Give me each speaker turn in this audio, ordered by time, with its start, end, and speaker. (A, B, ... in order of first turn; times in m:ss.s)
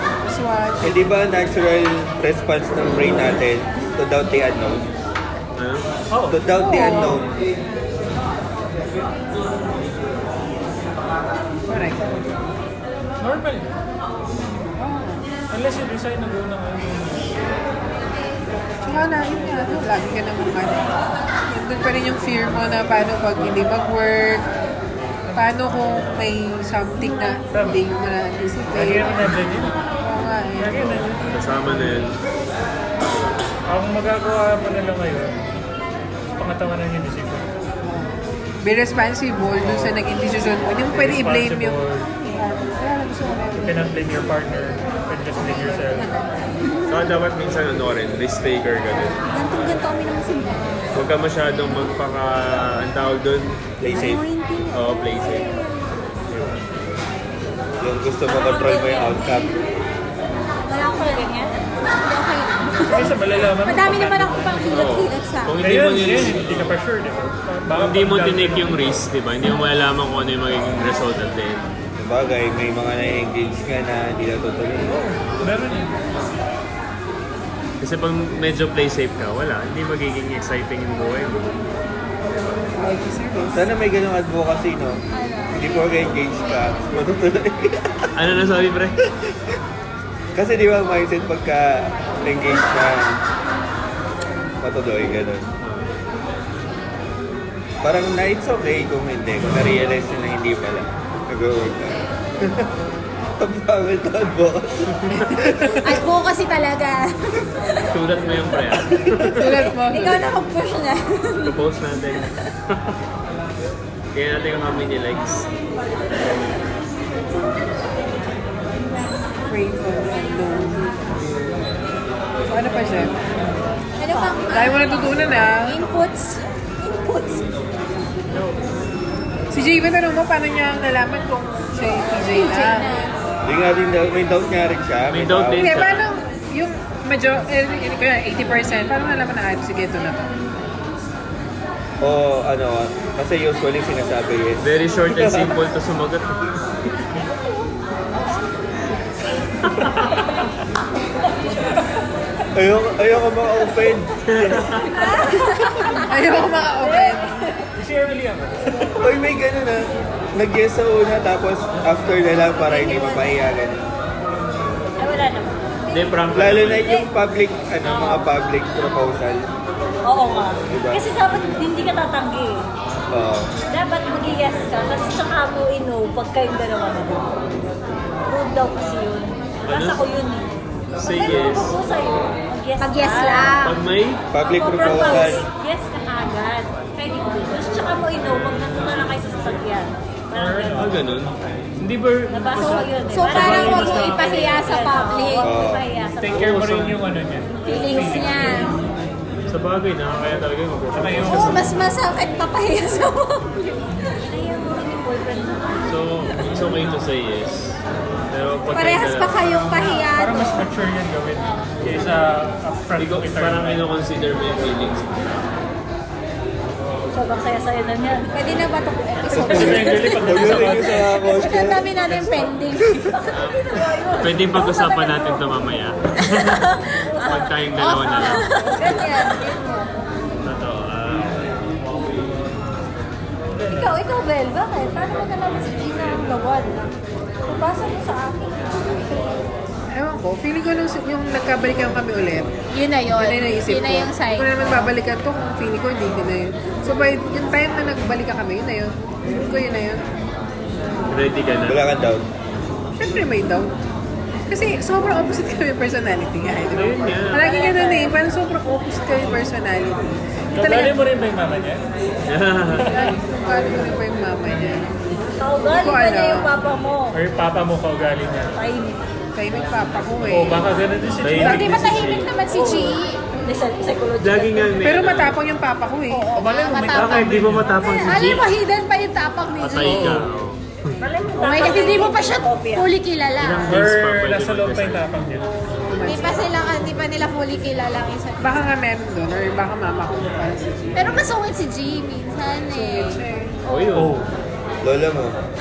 0:00.2-0:01.0 A
0:00.8-0:04.9 B
0:05.6-0:05.9 C
0:06.1-0:06.4 D
0:06.3-0:07.3 B
0:06.6-0:07.2 A
0:11.7-0:12.1 A
0:13.2-0:13.8 D
0:14.8-0:15.2 A
0:15.5-0:17.4 D
0:18.8-0:20.9 A
0:21.5-0:24.4 A
0:25.3-0:29.3 A
0:27.5-0:27.8 D
0:28.7-0:29.8 D
0:30.0-0:31.0 A
0:30.6-0:31.3 D
0:31.2-0:32.2 C
0:33.7-0:35.4 D
0:36.4-0:37.5 D
0:37.8-0:43.8 A
0:39.6-0:40.0 D
0:40.9-0:42.1 D
0:43.6-0:46.1 D
0:46.6-0:47.1 E
0:46.9-0:49.2 C
0:49.3-0:50.8 E
0:50.9-0:53.6 C
0:53.8-0:54.2 B
0:53.9-0:55.9 E
0:54.7-0:55.5 C
0:56.3-0:56.6 C
0:57.8-0:59.5 B
0:58.2-0:59.2 F
1:00.6-1:05.6 E
1:00.8-1:01.5 F
1:02.9-1:04.7 D
1:04.7-1:06.7 C
1:05.6-1:08.8 D
1:07.7-1:11.6 C
1:12.0-1:15.0 B
1:14.8-1:16.0 D
1:17.8-1:21.5 C
1:22.7-1:23.6 A
1:23.5-1:28.1 B
1:25.2-1:25.7 E
1:28.2-1:29.0 C
1:30.3-1:33.2 B
1:34.6-1:35.5 B
1:35.6-1:35.9 C
1:37.8-1:42.7 B
1:43.4-1:45.8 B
1:44.9-1:45.2 C
1:45.7-1:47.9 E
1:47.9-1:49.6 C
1:49.1-1:50.3 A
1:49.4-1:51.6 E
1:51.4-1:53.0 C
1:52.2-1:52.4 E
1:54.1-1:55.5 C
1:59.5-2:00.9 A
2:02.5-2:03.2 A
2:04.0-2:07.5 E
2:04.5-2:05.8 A
2:09.5-2:12.9 A
2:12.2-2:13.2 E
2:13.4-2:15.7 B
2:15.1-2:16.1 C
2:15.6-2:20.3 A
2:22.0-2:25.6 B
2:24.6-2:26.6 C
2:29.6-2:30.2 C
2:32.5-2:34.7 B
2:34.3-2:34.9 C
2:34.8-2:36.1 E
2:34.9-2:36.1 F
2:36.1-2:37.4 A
2:36.8-2:37.4 F
2:37.8-2:38.9 D
2:39.0-2:43.9 B
2:42.5-2:43.3 E
2:45.0-2:46.0 F
2:45.9-2:46.9 C
2:46.3-2:49.5 B
2:47.8-2:48.2 F
2:50.1-2:52.7 F
2:50.7-2:51.0 B
2:53.1-2:53.5 B
2:53.7-2:57.3 F
2:58.3-3:00.5 F
2:59.7-3:00.0 C
3:01.0-3:01.8 C
3:01.0-3:03.5 F
3:02.8-3:03.8 E
3:03.6-3:04.2 C
3:04.3-3:05.4 B
3:04.4-3:10.9 F
3:04.9-3:05.4 E
3:10.3-3:11.0 D
3:10.8-3:14.5 C
3:12.3-3:16.6 F
3:12.6-3:15.6 E
3:13.3-3:14.1 D
3:15.4-3:15.8 B
3:16.2-3:18.5 D
3:16.3-3:17.0 C
3:17.6-3:18.8 E
3:17.7-3:18.4 F
3:19.5-3:21.7 C
3:20.9-3:21.7 D
3:21.2-3:23.8 E
3:24.2-3:25.6 F
3:25.8-3:29.5 C
3:28.7-3:30.7 E
3:30.1-3:33.8 D
3:31.4-3:31.7 F
3:33.0-3:35.5 C
3:36.8-3:37.1 D
3:37.1-3:38.3 F
3:38.3-3:45.3 E
3:39.3-3:41.9 B
3:39.4-3:41.1 D
3:42.8-3:43.1 B
3:43.3-3:46.6 C
3:43.4-3:45.0 F
3:46.3-3:49.5 E
3:47.2-3:48.5 C
3:48.1-3:49.9 F
3:50.4-3:51.5 C
3:53.5-3:54.0 D
3:53.7-3:56.8 F
3:57.4-3:59.4 F
3:59.9-4:02.5 A
4:02.7-4:04.9 E
4:03.1-4:10.0 A
4:11.1-4:11.8 C
4:11.7-4:12.2 B
4:13.0-4:13.7 A
4:14.5-4:20.9 A
4:16.7-4:17.6 C
4:17.3-4:18.2 F
4:20.5-4:21.8 D
4:22.3-4:22.9 C
4:22.8-4:24.8 A
4:22.8-4:23.1 D
4:25.4-4:27.2 F
4:25.7-4:26.5 A
4:27.1-4:28.6 D
4:28.6-4:29.0 F
4:29.3-4:30.8 A
4:30.3-4:32.0 D
4:31.2-4:32.3 C
4:31.4-4:33.2 E
4:32.5-4:34.8 F
4:34.2-4:35.4 C
4:34.8-4:36.4 A
4:36.1-4:40.1 E
4:36.4-4:38.1 D
4:36.8-4:38.5 C
4:39.6-4:41.0 C
4:39.8-4:40.3 D
4:41.0-4:42.8 F
4:41.4-4:43.8 E
4:43.4-4:45.0 C
4:43.7-4:45.4 D
4:45.8-4:46.4 A
4:46.0-4:48.6 E
4:48.4-4:51.2 A
4:50.9-4:53.8 E
4:52.7-4:53.5 A
4:53.7-4:54.2 C
4:53.9-4:54.3 D
4:54.8-4:55.4 B